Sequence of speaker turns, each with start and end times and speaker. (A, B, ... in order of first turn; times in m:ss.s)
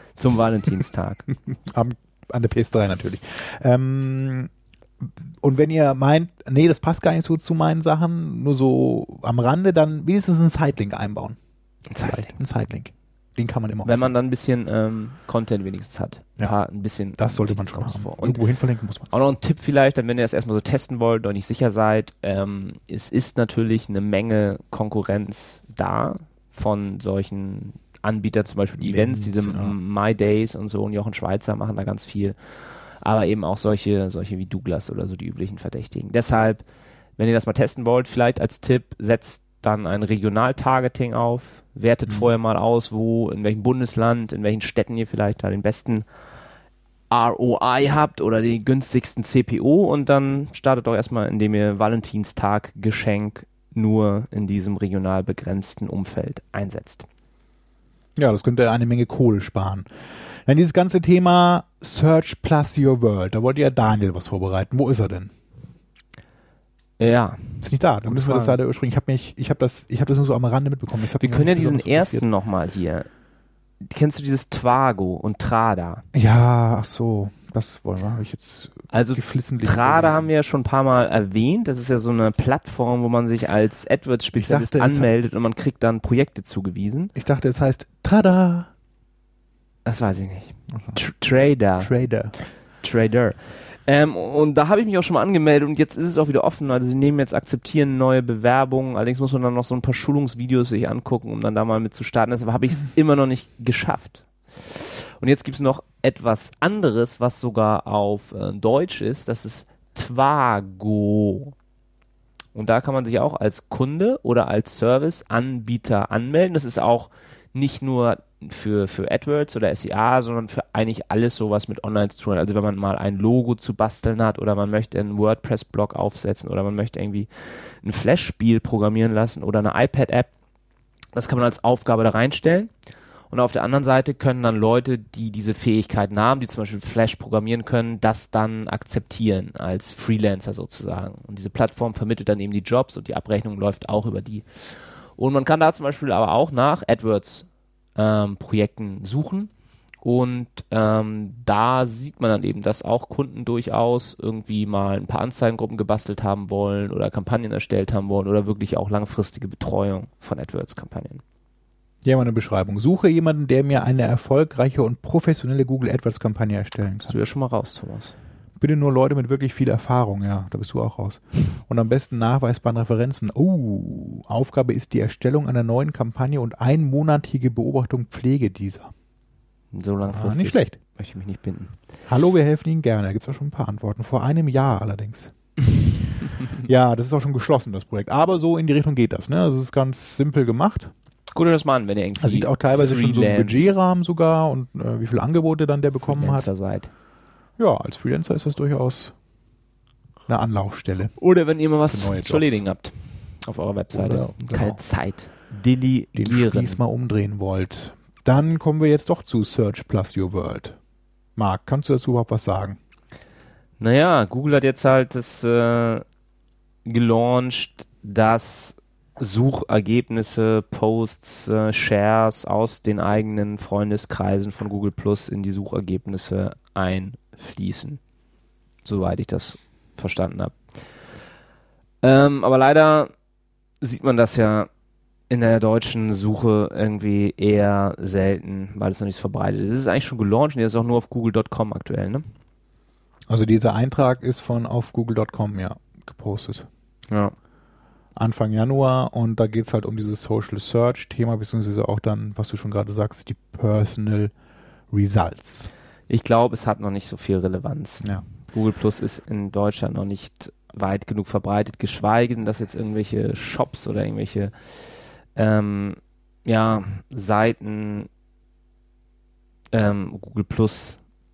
0:00.2-0:01.3 A
0:01.5-0:11.4 B
0:11.9-0:12.4 A
0:12.0-0:14.1 B
0:13.8-0:18.4 A
0:17.2-0:19.2 B
0:19.1-0:36.6 A
0:28.8-0:29.7 B
0:37.2-0:46.1 A
0:47.1-0:57.1 A
0:58.2-1:05.3 B
1:07.0-1:08.6 A
1:07.6-1:12.2 B
1:11.2-1:13.1 A
1:13.8-1:16.0 A
1:16.1-1:20.3 B
1:18.9-1:27.1 A
1:24.4-1:25.1 B
1:27.2-1:28.7 B
1:29.8-1:51.5 A
1:30.7-1:31.0 B
1:31.8-1:32.4 B
1:52.6-2:10.3 A
2:11.1-2:12.7 A
2:13.3-2:29.5 A
2:30.0-2:41.2 A
2:42.0-2:47.2 B
2:47.0-2:48.2 A
2:48.6-2:58.9 B
2:59.7-3:01.8 A
3:00.1-3:00.8 B
3:02.1-3:05.3 B
3:06.6-3:10.9 B
3:11.3-3:13.8 A
3:12.2-3:16.5 B
3:16.0-3:16.9 A
3:17.6-3:19.1 B
3:20.3-3:22.6 B
3:21.2-3:26.8 A
3:23.9-3:24.8 B
3:26.2-3:30.8 B
3:31.4-3:32.8 B
3:33.8-3:36.0 A
3:36.8-3:48.0 A
3:48.8-3:51.0 A
3:52.0-3:53.1 A
3:53.8-3:54.7 A
3:55.3-4:02.3 A
4:03.3-4:06.7 B
4:07.1-4:07.4 A
4:08.2-4:14.3 B
4:14.9-4:15.7 B
4:16.1-4:28.1 A
4:29.7-4:31.0 A